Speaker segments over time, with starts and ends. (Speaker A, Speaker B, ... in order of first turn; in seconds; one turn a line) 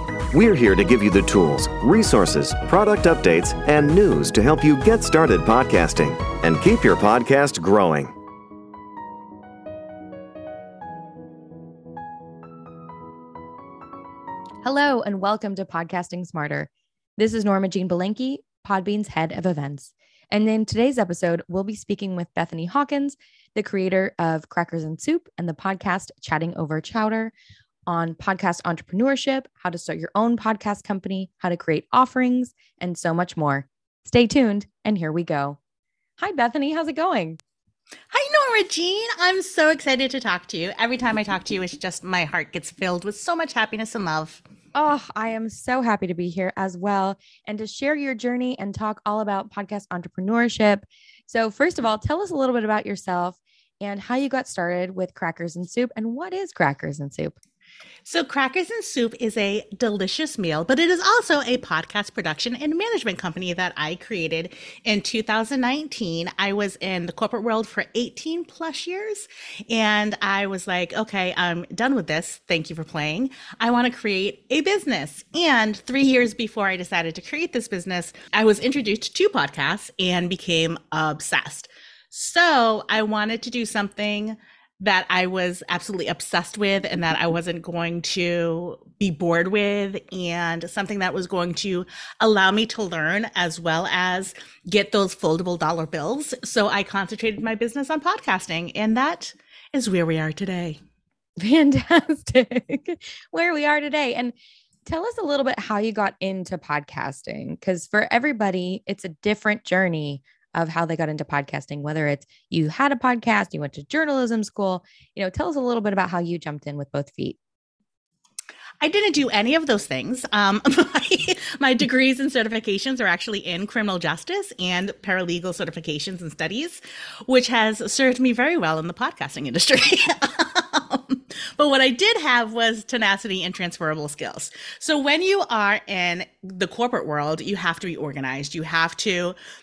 Speaker A: 0.3-8.1
Speaker B: 14.6-27.3
Speaker B: 27.9-35.6
Speaker B: 36.2-37.4
Speaker C: 38.1-44.4
Speaker B: 44.7-57.4
Speaker C: 58.0-100.8
Speaker B: 101.4-104.3
Speaker B: 104.8-117.4
Speaker C: 118.8-139.3